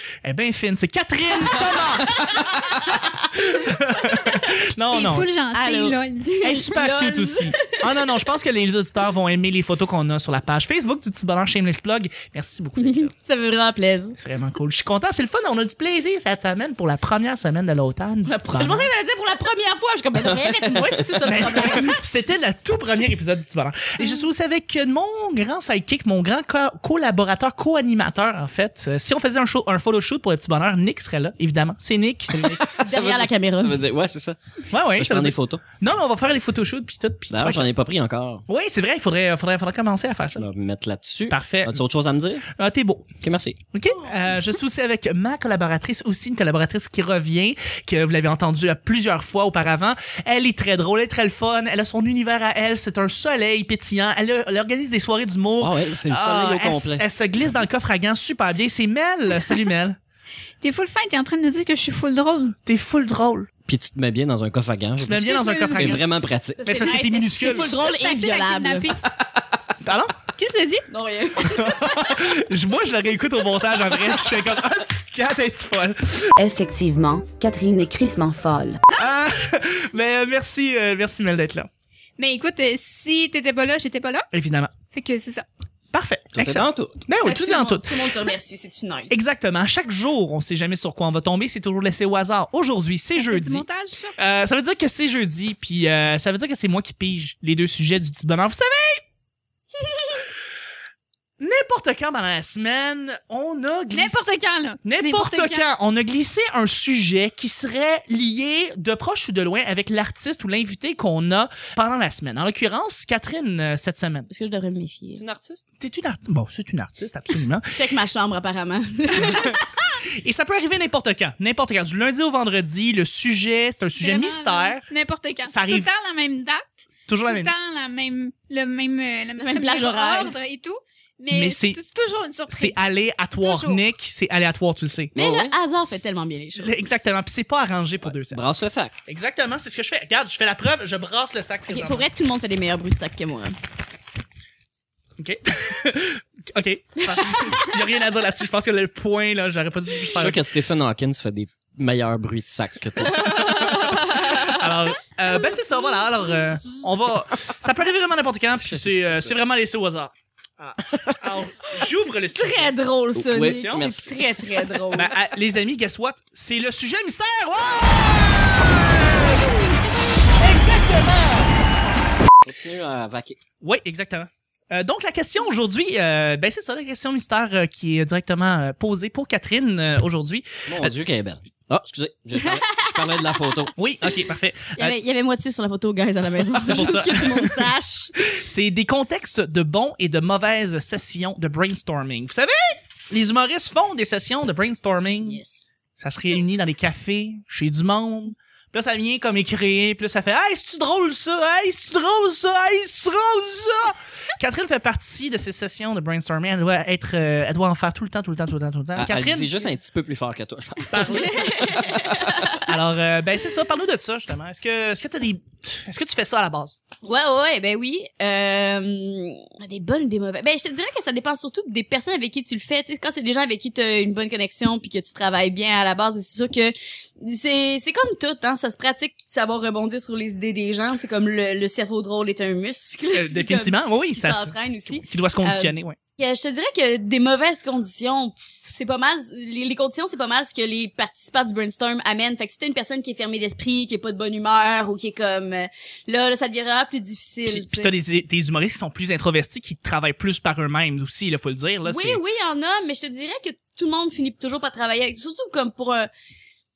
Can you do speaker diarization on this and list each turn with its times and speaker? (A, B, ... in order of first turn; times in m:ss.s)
0:00.2-0:05.3 A
0:02.1-0:03.1 B
0:04.9-0:06.6 C
0:05.5-0:07.9 B
0:06.4-0:13.1 A
0:12.8-0:14.2 B
0:14.2-0:18.9 A
0:18.2-0:22.0 B
0:20.2-0:21.7 D
0:21.2-0:32.8 A
0:24.0-0:24.3 B
0:32.3-0:35.6 D
0:32.8-0:33.7 B
0:34.7-0:37.7 A
0:37.3-0:38.4 D
0:38.5-0:40.4 A
0:40.4-0:42.4 D
0:41.3-0:41.8 A
0:42.5-0:43.1 A
0:43.2-0:43.6 D
0:43.7-1:00.0 A
0:43.9-0:44.4 B
0:55.6-0:57.0 D
1:00.6-1:02.6 C
1:02.6-1:03.5 A
1:03.6-1:07.0 D
1:05.0-1:06.0 A
1:05.4-1:06.0 B
1:06.6-1:09.1 B
1:06.6-1:07.8 A
1:07.5-1:09.0 C
1:09.8-1:10.2 A
1:10.4-1:10.9 C
1:10.9-1:12.2 B
1:11.4-1:16.3 A
1:16.4-1:18.8 E
1:19.0-1:21.7 A
1:22.2-1:24.3 C
1:24.3-1:24.7 A
1:24.9-1:25.4 C
1:25.9-1:28.0 A
1:26.3-1:27.0 D
1:27.2-1:29.2 B
1:29.1-1:33.6 A
1:33.1-1:34.2 C
1:34.2-1:39.0 A
1:39.8-1:40.2 B
1:41.4-1:44.3 A
1:43.9-1:45.6 C
1:44.8-1:54.3 A
1:54.3-1:55.2 B
1:55.2-1:55.6 D
1:55.8-1:57.7 A
1:57.7-1:59.6 B
2:00.2-2:04.8 A
2:04.0-2:13.8 C
2:05.5-2:05.9 A
2:07.1-2:07.5 A
2:09.4-2:10.3 B
2:11.3-2:11.8 A
2:12.5-2:15.1 A
2:15.1-2:15.6 D
2:15.1-2:17.0 B
2:16.6-2:18.4 A
2:18.0-2:18.9 D
2:19.1-2:22.0 A
2:21.7-2:23.6 B
2:25.2-2:30.4 A
2:27.0-2:27.7 B
2:30.1-2:33.7 D
2:33.0-2:34.7 B
2:34.3-2:42.8 A
2:35.3-2:36.4 B
2:38.6-2:39.4 D
2:42.4-2:45.1 B
2:43.1-2:44.5 D
2:43.3-2:43.8 A
2:44.9-2:49.8 A
2:50.4-2:51.5 A
2:52.4-2:53.4 D
2:53.6-3:00.9 A
3:00.7-3:03.7 D
3:02.4-3:03.2 B
3:03.8-3:04.9 A
3:04.8-3:08.1 B
3:06.7-3:07.7 A
3:08.2-3:15.4 A
3:15.2-3:15.7 B
3:16.0-3:29.7 A
3:28.9-3:32.5 D
3:30.9-3:31.7 A
3:31.0-3:32.6 B
3:32.6-3:36.8 A
3:37.0-4:07.9 B
3:53.1-3:56.0 A
4:07.5-4:12.2 A
4:11.8-4:16.1 B